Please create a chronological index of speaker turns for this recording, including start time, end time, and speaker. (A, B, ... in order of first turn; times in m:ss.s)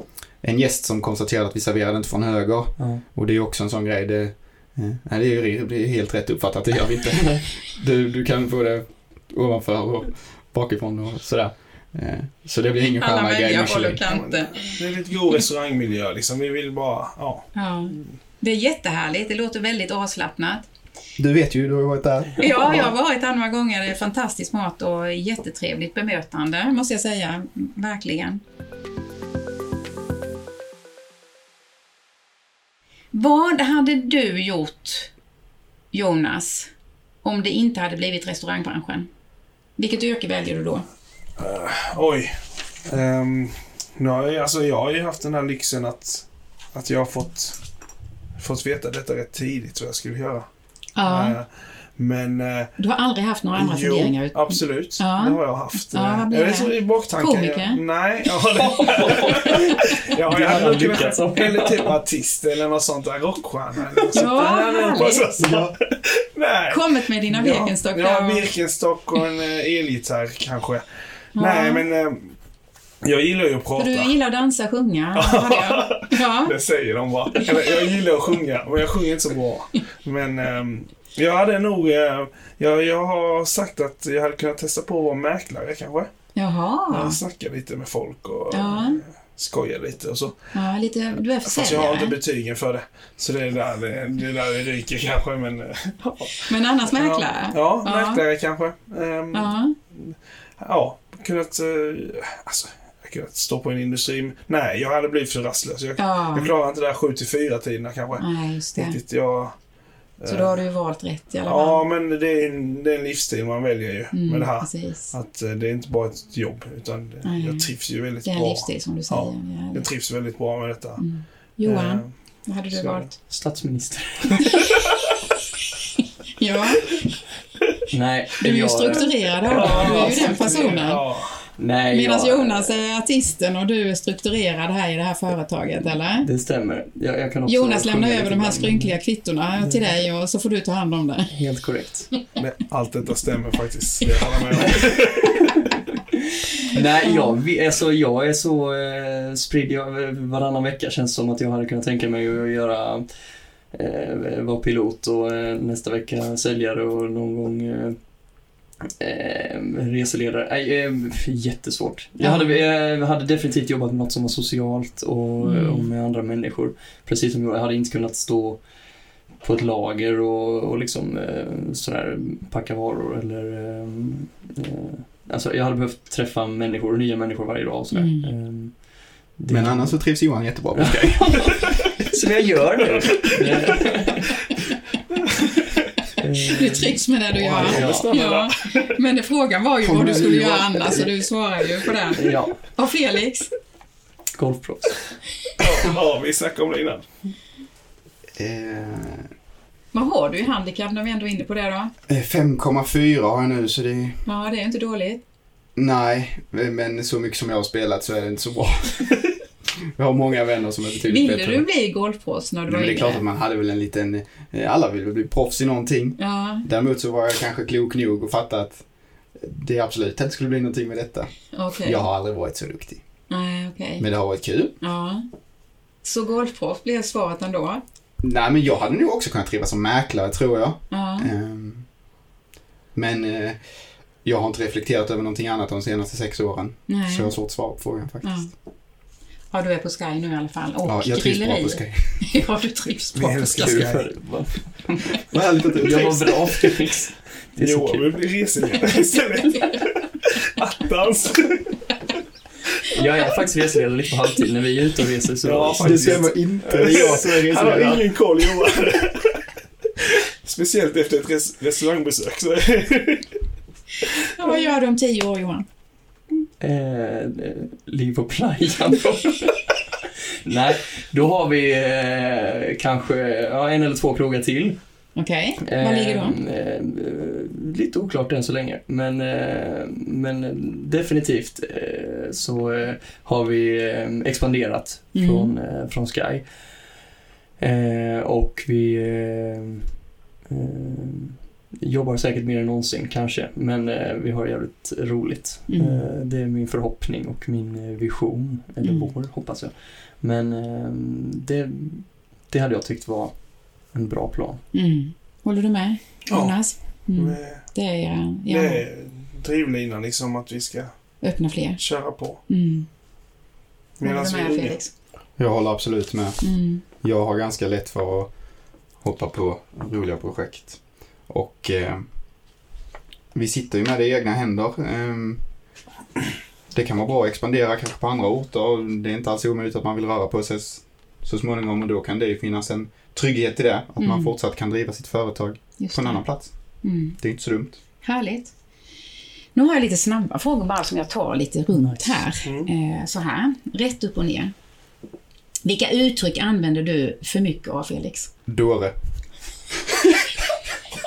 0:00.4-0:14.0 A
0:02.8-0:03.0 B
0:12.9-0:14.8 C
0:14.1-0:18.1 D
0:17.5-0:20.7 C
0:21.2-0:22.8 A
0:22.4-0:28.4 C
0:33.1-0:35.1 C
0:35.9-0:36.7 C
0:37.2-0:39.1 C
0:39.8-0:40.8 C
0:41.4-0:47.6 D
0:48.4-0:50.5 D
0:51.0-0:51.4 C
0:51.0-0:52.7 D
0:52.8-0:57.8 C
0:53.5-1:10.8 D
0:58.7-1:01.9 B
1:04.1-1:05.3 C
1:05.4-1:05.7 B
1:06.7-1:08.5 C
1:11.3-1:12.3 D
1:11.4-1:11.8 C
1:13.0-1:14.1 D
1:13.8-1:16.6 C
1:15.1-1:26.1 D
1:26.3-1:27.2 C
1:26.9-1:30.4 D
1:28.5-1:29.0 C
1:30.5-1:32.2 C
1:31.4-1:49.6 D
1:36.5-1:38.2 C
1:39.3-1:39.7 C
1:46.0-1:46.5 C
1:48.2-1:49.0 C
1:50.2-1:50.6 D
1:50.3-1:51.8 C
1:51.4-2:01.0 D
1:54.1-1:55.1 C
1:57.2-1:59.9 C
2:01.0-2:03.1 C
2:01.6-2:02.1 D
2:02.7-2:03.1 D
2:03.2-2:04.9 B
2:06.4-2:07.0 C
2:07.9-2:10.8 B
2:08.4-2:11.0 C
2:09.5-2:11.4 D
2:11.6-2:12.8 B
2:11.9-2:16.3 C
2:16.2-2:19.0 B
2:17.5-2:21.3 C
2:19.6-2:20.0 B
2:21.3-2:22.1 B
2:22.4-2:25.6 D
2:26.1-2:33.0 B
2:27.0-2:27.4 C
2:33.7-2:38.0 B
2:39.0-2:48.6 B
2:42.2-2:42.5 C
2:45.4-2:45.9 C
2:49.4-2:58.8 B
2:57.9-2:58.3 C
2:59.4-3:00.1 B
2:59.5-3:01.8 A
3:00.7-3:04.5 B
3:06.2-3:08.1 B
3:06.4-3:13.5 C
3:07.4-3:09.0 D
3:09.8-3:11.1 A
3:12.1-3:12.6 B
3:14.4-3:15.1 B
3:15.6-3:17.0 D
3:18.4-3:19.3 A
3:19.9-3:21.9 C
3:22.1-3:24.2 A
3:24.2-3:25.2 C
3:25.8-3:29.4 A
3:29.9-3:31.6 A
3:31.0-3:33.2 C
3:32.7-3:38.8 A
3:36.2-3:36.7 C
3:39.4-3:43.0 A
3:41.5-3:42.1 C
3:43.3-3:44.0 C
3:44.0-3:44.7 A
3:44.8-3:45.2 C
3:46.0-3:47.8 C
3:48.2-3:51.8 A
3:50.9-3:51.3 C
3:52.9-3:53.6 A
3:54.2-3:58.5 A
3:56.9-3:57.3 C
3:58.2-3:58.5 C
3:59.5-4:03.7 C
4:00.8-4:02.2 A
4:03.1-4:04.1 D
4:03.2-4:08.1 B
4:05.3-4:06.4 A
4:07.6-4:11.8 D
4:12.9-4:16.3 B
4:15.4-4:19.4 D
4:15.8-4:18.1 A
4:20.0-4:23.3 D
4:24.3-4:25.6 C
4:26.6-4:29.8 B
4:30.4-4:34.8 B
4:35.2-4:36.4 C
4:35.6-4:46.4 B
4:45.1-4:45.5 C
4:47.6-4:49.9 B
4:50.5-5:03.3 B
4:55.7-4:56.0 C
4:58.8-4:59.1 C
5:03.9-5:04.6 B
5:04.7-5:08.8 C
5:06.3-5:06.6 D
5:07.1-5:07.7 D
5:08.5-5:10.9 D
5:11.2-5:11.8 C
5:11.8-5:12.4 D
5:12.5-5:12.9 C
5:14.0-5:14.8 D
5:14.0-5:14.9 C
5:15.4-5:16.4 A
5:16.4-5:16.8 C
5:17.0-5:18.3 A
5:19.0-5:22.0 A
5:23.3-5:25.4 A
5:26.7-5:36.5 A
5:34.0-5:34.3 C
5:35.8-5:36.2 C
5:36.8-5:37.2 C
5:37.2-5:37.8 A
5:38.0-5:38.5 C
5:39.5-5:44.5 C
5:41.7-5:42.2 B
5:42.4-5:42.7 D
5:45.6-5:48.3 C
5:48.5-5:48.9 A